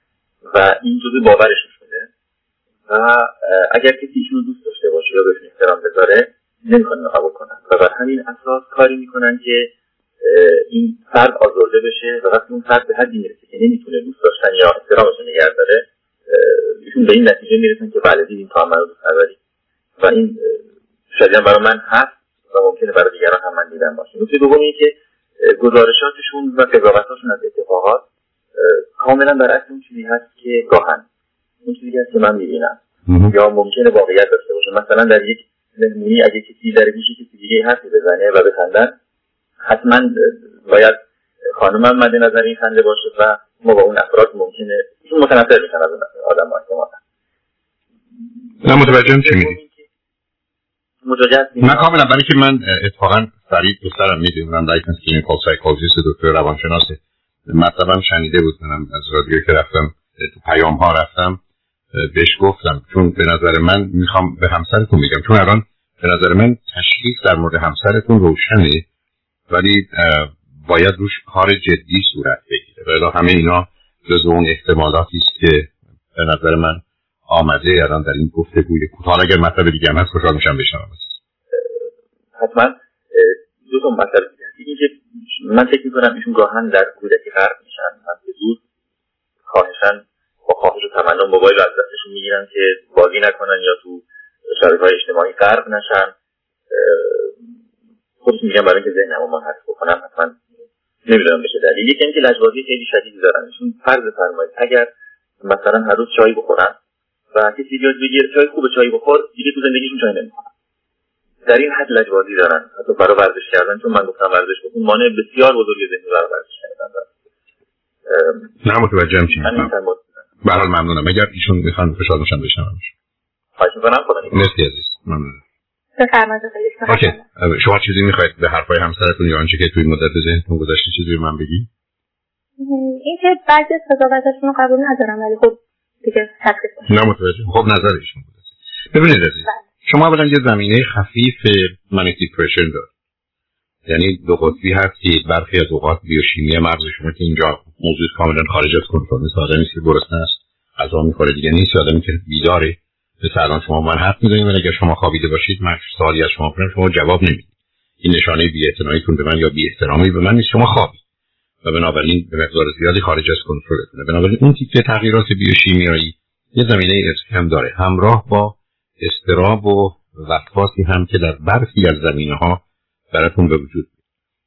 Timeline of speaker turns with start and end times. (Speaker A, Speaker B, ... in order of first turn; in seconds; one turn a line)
Speaker A: 0.5-2.1
Speaker A: 2.9-19.4
Speaker A: 20.0-20.6
Speaker A: 21.1-28.0
Speaker A: 28.6-31.0
Speaker A: 31.6-32.8
Speaker B: 33.1-33.3
Speaker A: 33.3-38.9
Speaker A: 39.6-47.0
Speaker B: 48.6-49.6
Speaker A: 48.6-49.8
Speaker A: 51.0-51.9
Speaker B: 51.6-61.4
Speaker B: 61.9-68.8
Speaker B: 69.5-81.2
Speaker A: 81.5-81.8
Speaker A: 82.4-88.6
Speaker A: 89.5-96.1
Speaker A: 96.7-97.3
Speaker A: 98.2-100.5
Speaker A: 101.1-104.9
Speaker A: 105.4-106.8
Speaker A: 107.3-110.5
Speaker A: 111.5-117.1
Speaker A: 118.1-118.5
Speaker B: 118.6-119.7
Speaker A: 119.3-120.0
Speaker B: 120.4-122.9
Speaker A: 123.6-124.5
Speaker B: 124.3-125.4
Speaker C: 126.0-127.2
Speaker B: 126.9-131.7
Speaker C: 132.6-136.9
Speaker B: 136.9-142.9
Speaker B: 143.9-157.5
Speaker B: 158.0-161.0
Speaker B: 161.6-173.9